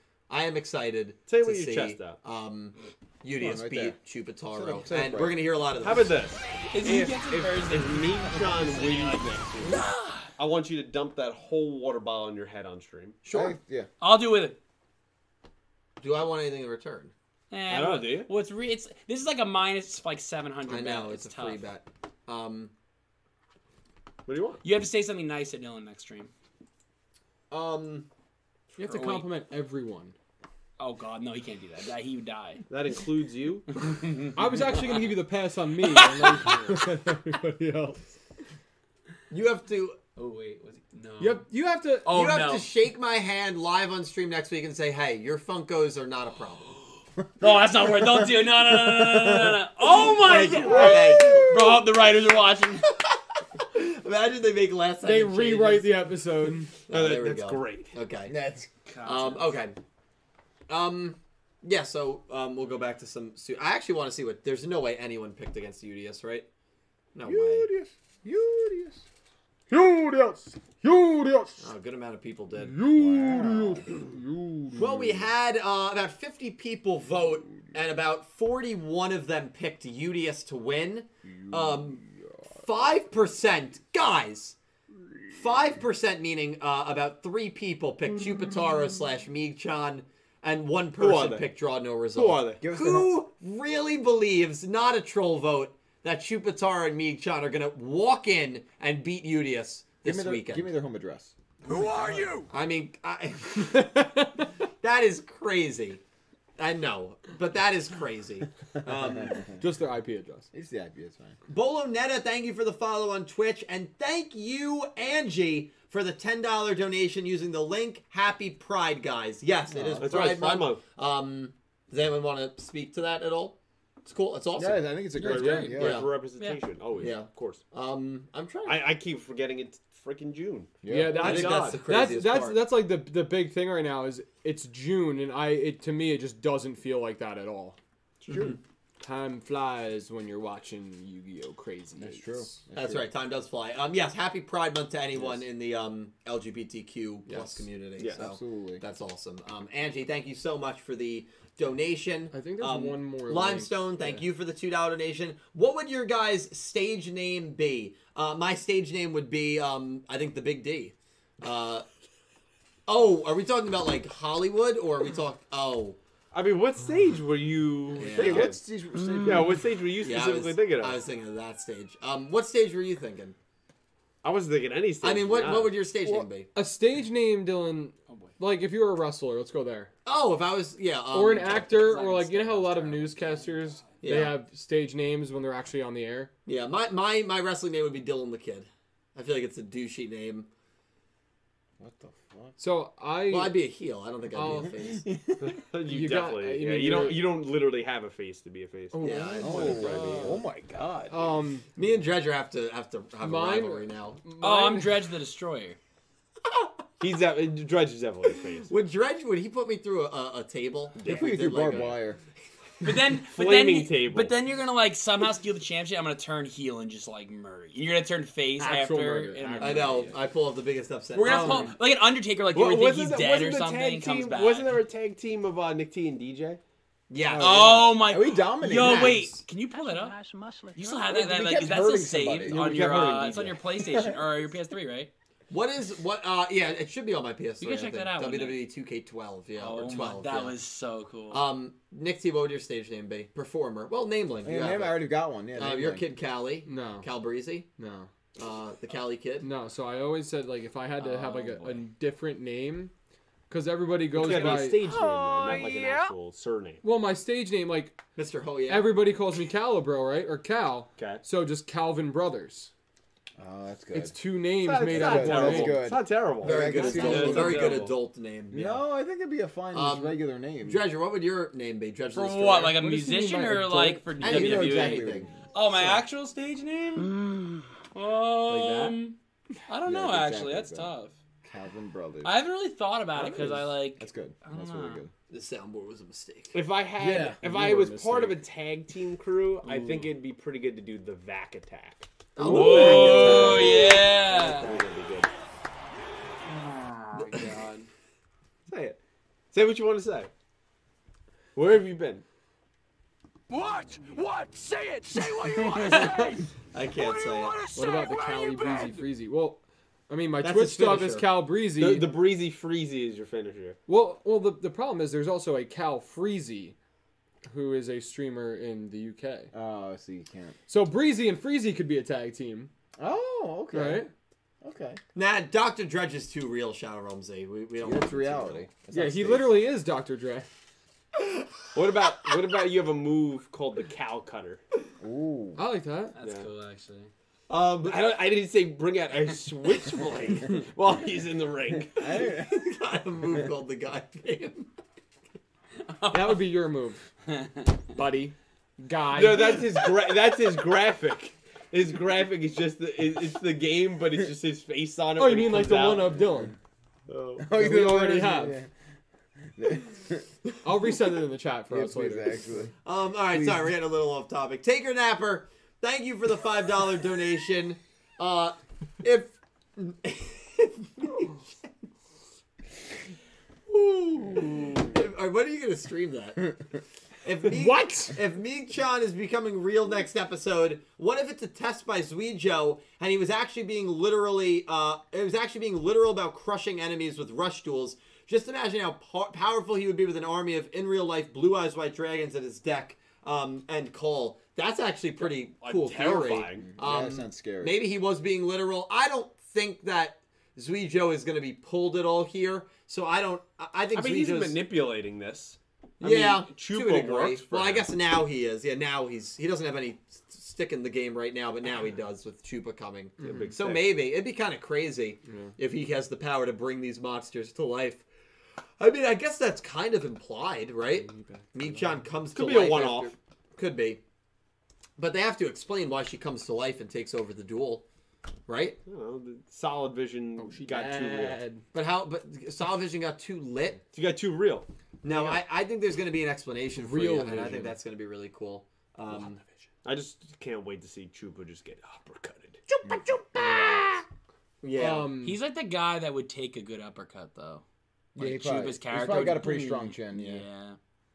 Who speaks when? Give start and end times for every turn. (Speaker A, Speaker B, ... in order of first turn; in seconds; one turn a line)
Speaker A: 0.3-6.2
Speaker B: 1.3-2.2
Speaker C: 3.4-5.5
Speaker B: 5.8-13.2
Speaker D: 6.7-10.3
Speaker A: 13.2-13.6
Speaker C: 13.3-13.9
Speaker D: 14.0-14.6
Speaker A: 16.0-17.1
Speaker D: 17.5-21.6
Speaker B: 17.7-18.3
Speaker A: 20.6-22.7
Speaker B: 24.3-24.6
Speaker D: 24.6-26.3
Speaker A: 27.5-28.1
Speaker E: 28.8-30.1
Speaker D: 28.8-29.3
Speaker D: 30.8-32.6
Speaker B: 32.7-33.7
Speaker D: 33.7-35.1
Speaker E: 34.3-38.0
Speaker D: 35.8-36.6
Speaker A: 39.3-40.0
Speaker D: 40.1-41.5
Speaker E: 41.2-42.1
Speaker D: 42.0-42.7
Speaker A: 42.1-46.8
Speaker D: 47.4-52.9
Speaker C: 48.7-49.6
Speaker A: 49.9-51.8
Speaker E: 50.4-51.5
Speaker C: 50.6-50.9
Speaker A: 53.1-56.1
Speaker E: 55.0-56.8
Speaker A: 56.9-58.3
Speaker B: 56.9-57.9
Speaker C: 58.2-58.7
Speaker D: 58.9-59.5
Speaker A: 59.0-59.8
Speaker A: 60.7-66.5
Speaker A: 67.1-67.7
Speaker C: 67.2-69.0
Speaker E: 69.7-71.7
Speaker A: 71.6-72.8
Speaker E: 72.5-75.1
Speaker C: 72.8-74.0
Speaker A: 74.8-82.0
Speaker C: 81.5-82.2
Speaker A: 82.6-84.6
Speaker A: 85.3-100.7
Speaker B: 91.0-91.5
Speaker B: 92.1-92.6
Speaker C: 92.6-93.1
Speaker C: 100.0-101.3
Speaker F: 101.6-102.5
Speaker A: 102.5-104.1
Speaker E: 103.7-104.5
Speaker A: 104.8-106.0
Speaker A: 106.6-109.5
Speaker E: 109.6-110.5
Speaker C: 110.5-111.4
Speaker A: 111.5-125.0
Speaker C: 119.7-120.4
Speaker B: 120.0-120.8
Speaker C: 124.5-126.0
Speaker E: 125.2-125.8
Speaker B: 125.2-127.6
Speaker A: 125.7-126.1
Speaker A: 127.0-128.9
Speaker B: 128.6-131.8
Speaker C: 130.8-131.5
Speaker E: 130.9-137.8
Speaker A: 131.1-132.7
Speaker A: 138.3-138.6
Speaker C: 138.3-138.6
Speaker E: 139.0-142.6
Speaker C: 142.0-143.1
Speaker A: 142.7-161.8
Speaker C: 145.1-145.4
Speaker E: 147.3-147.6
Speaker B: 148.0-148.2
Speaker C: 148.0-148.8
Speaker E: 152.3-154.2
Speaker A: 162.9-166.0
Speaker B: 166.3-168.6
Speaker A: 167.9-168.6
Speaker C: 168.0-169.6
Speaker B: 169.2-171.0
Speaker A: 170.0-173.3
Speaker B: 174.2-175.8
Speaker A: 175.0-176.5
Speaker E: 176.5-179.9
Speaker D: 178.1-178.3
Speaker A: 180.0-181.7
Speaker E: 181.1-186.3
Speaker D: 181.5-184.0
Speaker A: 184.0-184.4
Speaker A: 186.4-190.5
Speaker C: 191.8-192.6
Speaker E: 192.6-193.6
Speaker A: 193.3-195.1
Speaker E: 194.3-195.1
Speaker B: 195.4-201.1
Speaker E: 195.8-197.3
Speaker E: 198.9-200.4
Speaker A: 199.0-199.9
Speaker C: 199.4-201.2
Speaker E: 201.1-201.7
Speaker A: 201.7-204.2
Speaker E: 203.2-205.0
Speaker D: 204.4-205.8
Speaker B: 207.0-208.7
Speaker A: 208.7-212.0
Speaker B: 211.0-211.3
Speaker C: 211.0-212.2
Speaker D: 212.8-220.1
Speaker B: 213.2-214.3
Speaker E: 218.6-220.1
Speaker A: 219.6-221.7
Speaker D: 221.1-224.8
Speaker E: 221.2-221.7
Speaker B: 222.5-226.6
Speaker A: 227.1-227.9
Speaker C: 227.2-229.4
Speaker D: 227.4-230.2
Speaker A: 228.7-229.2
Speaker G: 229.7-231.7
Speaker D: 230.8-235.1
Speaker C: 231.1-232.7
Speaker B: 232.5-233.6
Speaker C: 233.8-234.2
Speaker A: 235.5-240.6
Speaker D: 237.6-238.6
Speaker D: 239.6-241.4
Speaker A: 241.3-247.7
Speaker C: 244.4-246.1
Speaker E: 246.7-247.1
Speaker E: 247.8-248.1
Speaker A: 248.3-249.5
Speaker E: 249.4-252.9
Speaker D: 251.0-251.9
Speaker E: 253.5-254.9
Speaker B: 254.1-256.8
Speaker G: 254.3-256.1
Speaker E: 256.8-258.0
Speaker A: 258.1-259.1
Speaker E: 258.7-262.7
Speaker B: 261.0-261.2
Speaker C: 263.4-264.1
Speaker E: 263.9-265.9
Speaker B: 264.6-267.9
Speaker C: 264.8-267.8
Speaker A: 266.4-268.8
Speaker C: 268.5-270.8
Speaker A: 269.7-272.8
Speaker D: 272.1-279.1
Speaker E: 272.7-274.2
Speaker C: 274.2-275.9
Speaker A: 274.2-275.3
Speaker C: 278.5-278.9
Speaker D: 279.7-281.1
Speaker C: 279.8-280.9
Speaker C: 281.4-282.4
Speaker D: 282.2-285.0
Speaker C: 283.1-285.1
Speaker A: 285.3-286.6
Speaker B: 286.5-293.8
Speaker E: 286.9-288.4
Speaker D: 289.6-290.1
Speaker A: 292.4-294.9
Speaker D: 292.4-294.7
Speaker C: 292.6-293.9
Speaker B: 294.3-295.3
Speaker D: 296.5-297.6
Speaker E: 297.2-297.9
Speaker B: 298.7-299.0
Speaker B: 299.5-300.3
Speaker B: 301.5-302.2
Speaker F: 303.5-309.1
Speaker A: 305.8-307.6
Speaker E: 307.7-312.2
Speaker A: 310.4-311.4
Speaker B: 311.7-313.8
Speaker E: 313.9-316.8
Speaker E: 317.5-319.5
Speaker C: 319.5-320.6
Speaker E: 320.7-322.7
Speaker C: 323.0-324.1
Speaker E: 323.7-324.1
Speaker C: 324.6-325.0
Speaker A: 325.1-328.8
Speaker C: 327.8-329.6
Speaker E: 328.9-330.5
Speaker B: 331.7-334.6
Speaker C: 335.0-335.6
Speaker E: 335.6-336.1
Speaker D: 336.1-337.1
Speaker B: 336.2-336.5
Speaker A: 337.5-338.0
Speaker B: 337.8-342.1
Speaker C: 341.9-342.6
Speaker A: 342.1-344.7
Speaker D: 345.8-346.4
Speaker E: 346.1-347.0
Speaker D: 347.3-347.8
Speaker E: 347.9-349.9
Speaker B: 349.1-356.2
Speaker E: 355.1-356.6
Speaker B: 357.1-357.4
Speaker C: 357.4-358.7
Speaker E: 357.5-358.6
Speaker C: 359.6-360.3
Speaker E: 360.6-362.4
Speaker C: 361.7-362.7
Speaker A: 362.8-371.4
Speaker C: 363.3-363.7
Speaker A: 373.7-376.6
Speaker A: 377.2-404.6
Speaker E: 377.5-378.2
Speaker B: 395.2-396.7
Speaker C: 396.7-397.8
Speaker B: 403.9-407.9
Speaker A: 406.0-418.1
Speaker E: 413.2-413.5
Speaker B: 413.2-413.9
Speaker E: 415.2-415.5
Speaker A: 418.8-424.0
Speaker E: 420.9-422.0
Speaker B: 422.3-423.1
Speaker A: 425.0-427.8
Speaker A: 428.5-428.8
Speaker B: 428.9-431.4
Speaker E: 430.4-431.6
Speaker A: 431.7-433.8
Speaker B: 433.9-434.7
Speaker A: 435.0-439.4
Speaker E: 435.1-435.4
Speaker E: 436.7-437.8
Speaker B: 439.8-442.6
Speaker E: 443.2-443.9
Speaker A: 443.4-443.9
Speaker A: 444.6-445.2
Speaker E: 444.7-445.4
Speaker D: 445.2-447.6
Speaker C: 448.1-450.4
Speaker D: 448.2-450.8